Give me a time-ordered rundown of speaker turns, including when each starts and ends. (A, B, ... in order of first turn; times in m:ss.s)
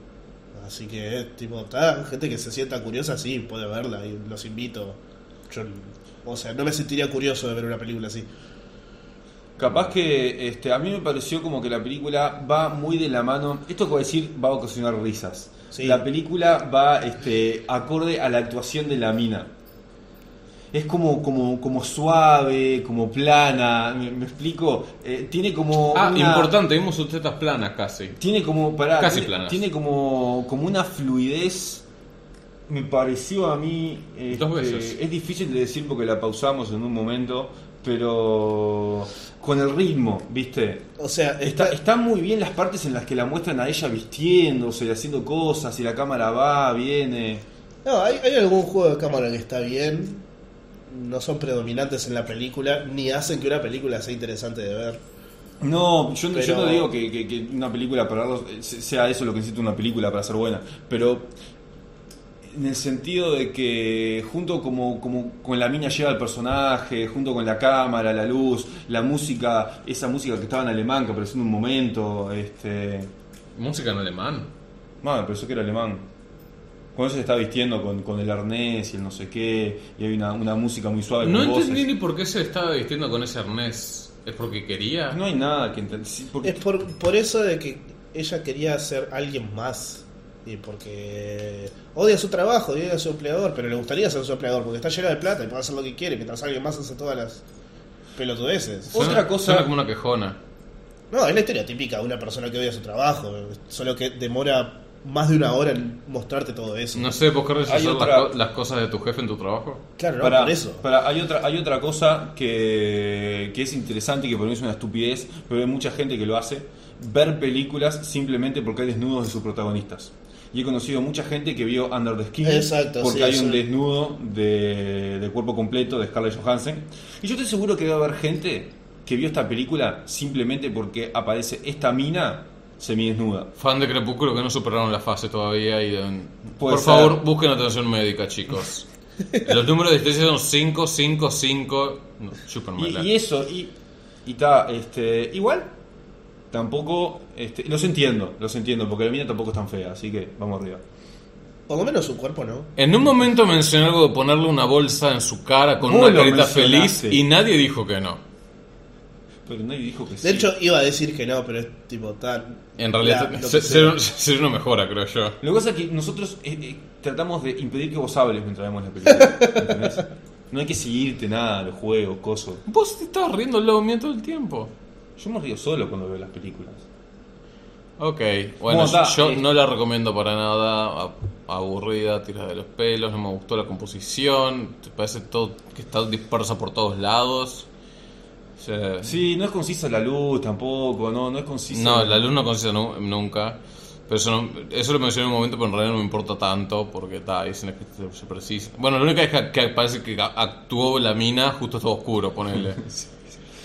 0:00.5-0:08.3 A
0:09.6-0:19.5 B
0:15.7-0:16.1 A
0:20.7-0:26.6 B
0:25.9-0:28.2 C
0:28.2-0:31.8 B
0:29.0-0:29.6 C
0:32.7-0:40.9 B
0:34.3-0:35.0 C
0:41.0-0:41.8 A
0:41.4-0:47.4 B
0:47.8-0:50.2 A
0:50.9-0:55.0 A
0:55.6-1:01.3 B
0:56.3-0:56.9 A
1:02.5-1:13.1 B
1:13.6-1:14.5 C
1:15.0-1:16.1 B
1:17.0-1:21.9 B
1:21.2-1:25.2 C
1:25.1-1:26.6 B
1:26.4-1:37.4 A
1:38.2-1:39.2 A
1:38.9-1:39.7 B
1:38.9-1:40.4 C
1:41.1-1:47.1 A
1:46.9-1:49.8 C
1:47.6-1:48.3 B
1:50.0-1:50.8 A
1:50.2-2:13.5 B
2:02.4-2:03.6 A
2:13.6-2:18.9 C
2:16.6-2:17.2 B
2:19.4-2:23.1 C
2:22.8-2:23.7 B
2:24.2-2:25.7 B
2:26.5-2:30.8 B
2:31.7-2:32.7 A
2:32.8-2:38.2 C
2:35.8-2:37.2 B
2:39.5-2:40.5 B
2:40.2-2:44.0 A
2:42.8-2:45.4 C
2:45.4-2:52.6 B
2:49.1-2:49.8 A
2:52.7-2:54.7 C
2:55.2-2:56.9 B
2:58.0-3:07.7 C
2:58.7-2:59.4 B
3:08.6-3:09.2 C
3:09.0-3:12.2 B
3:11.7-3:23.1 C